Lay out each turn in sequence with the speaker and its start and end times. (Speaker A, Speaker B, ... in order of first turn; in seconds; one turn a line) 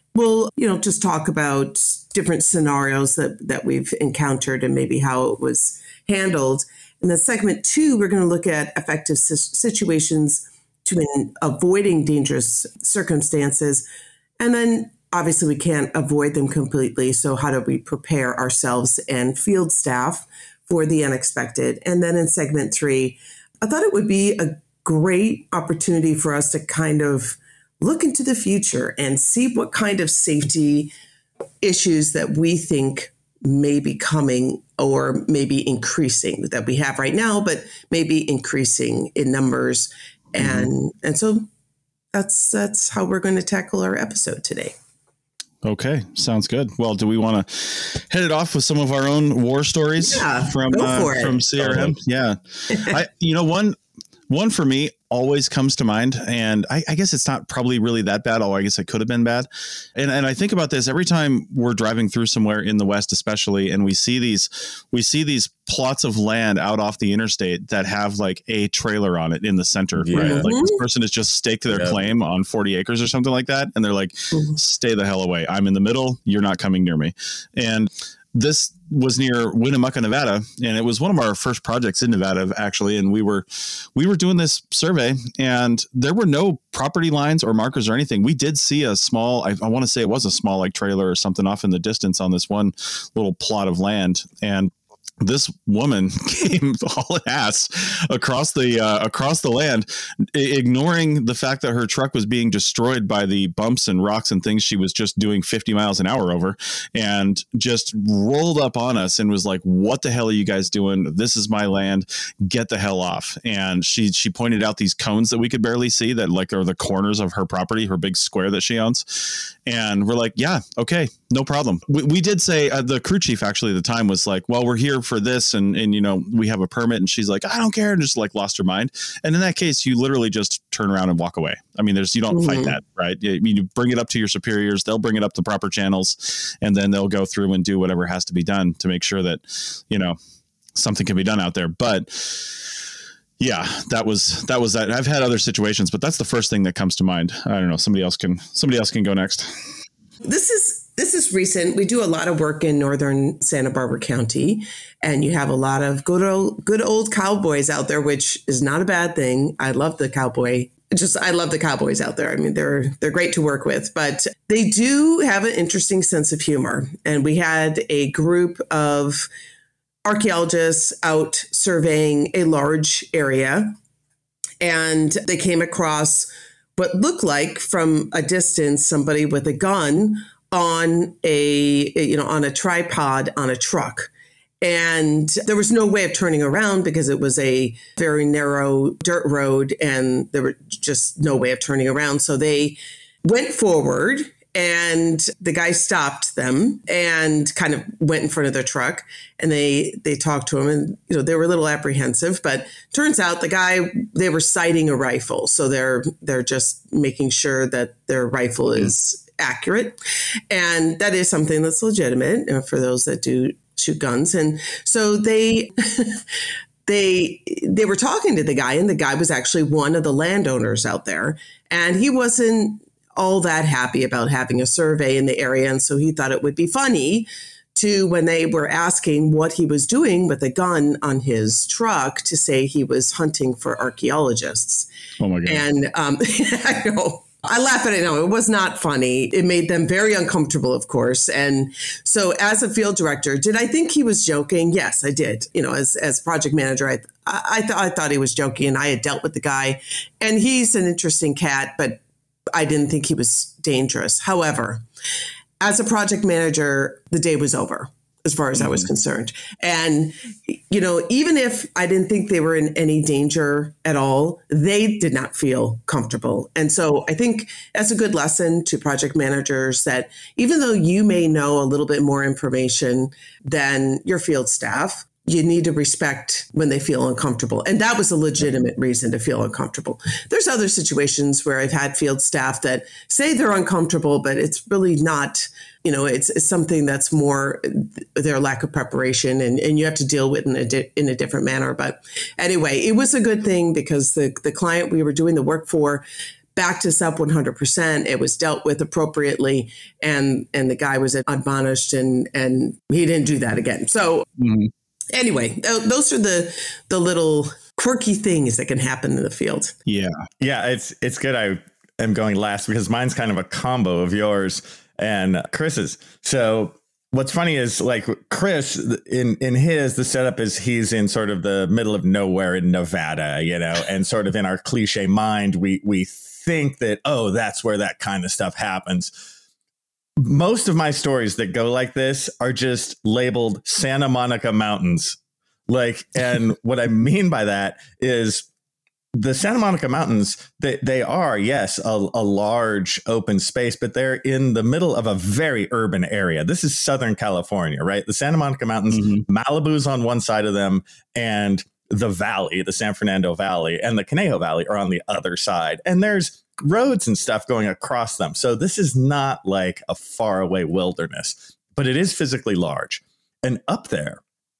Speaker A: 0.1-13.8
Speaker A: 14.4-30.9
Speaker A: 31.6-41.5
Speaker B: 40.4-40.7
Speaker A: 42.1-44.7
Speaker B: 45.6-53.8
Speaker A: 50.0-51.8
Speaker C: 51.6-51.9
Speaker A: 52.7-53.0
Speaker B: 54.3-140.2
Speaker C: 70.0-70.5
Speaker A: 70.1-70.8
Speaker C: 71.7-72.0
Speaker A: 132.3-132.8
Speaker B: 140.7-142.8
Speaker B: 143.4-149.5
Speaker A: 150.2-169.3
Speaker A: 170.0-173.8
Speaker A: 174.6-184.1
Speaker A: 184.6-216.2
Speaker A: 216.8-234.9
Speaker B: 235.2-235.6
Speaker A: 235.4-252.0
Speaker A: 252.5-254.8
Speaker A: 255.6-296.0
Speaker B: 258.6-258.9
Speaker A: 296.6-304.3
Speaker B: 304.4-304.7
Speaker A: 305.1-309.7
Speaker B: 309.9-310.2
Speaker C: 310.4-329.1
Speaker C: 330.2-338.5
Speaker C: 339.1-364.2
Speaker B: 348.9-349.2